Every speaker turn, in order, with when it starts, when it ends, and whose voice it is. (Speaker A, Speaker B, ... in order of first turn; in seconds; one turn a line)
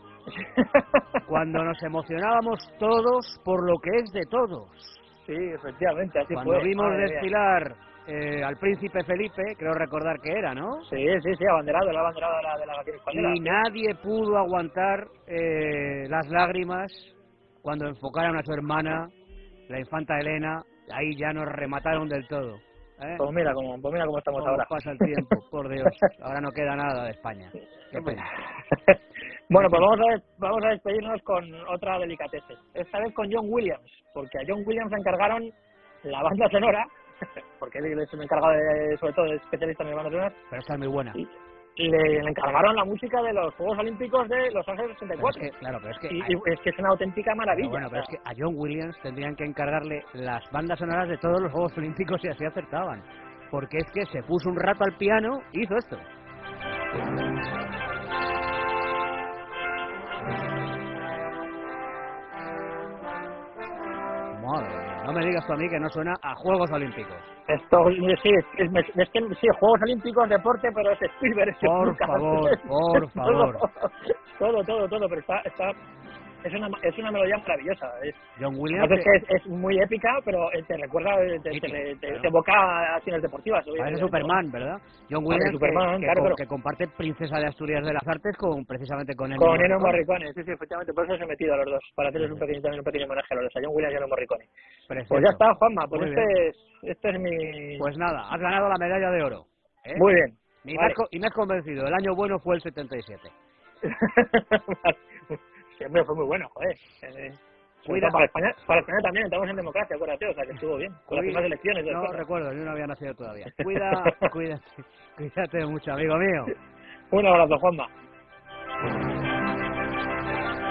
Speaker A: 0.3-1.2
Speaker B: 1.3-5.0
Speaker A: 5.3-7.3
Speaker B: 6.3-10.9
Speaker A: 10.9-13.6
Speaker B: 13.1-19.1
Speaker B: 19.7-23.3
Speaker A: 23.2-25.3
Speaker B: 24.4-28.3
Speaker A: 27.9-35.5
Speaker B: 29.6-29.9
Speaker A: 36.0-36.9
Speaker A: 37.6-40.4
Speaker B: 40.5-41.2
Speaker A: 41.2-45.5
Speaker B: 45.2-46.4
Speaker A: 46.1-48.1
Speaker B: 47.5-56.1
Speaker B: 64.3-67.3
Speaker A: 67.5-75.8
Speaker B: 71.6-73.7
Speaker A: 76.4-78.2
Speaker B: 78.4-79.1
Speaker A: 78.7-84.4
Speaker B: 81.5-82.3
Speaker B: 83.8-90.0
Speaker A: 85.3-86.4
Speaker A: 89.4-94.5
Speaker B: 94.9-96.3
Speaker A: 95.1-97.9
Speaker B: 97.8-100.1
Speaker A: 100.0-101.0
Speaker B: 100.6-103.3
Speaker A: 103.8-112.2
Speaker B: 107.9-108.2
Speaker B: 111.1-116.5
Speaker A: 113.6-114.3
Speaker A: 117.1-117.9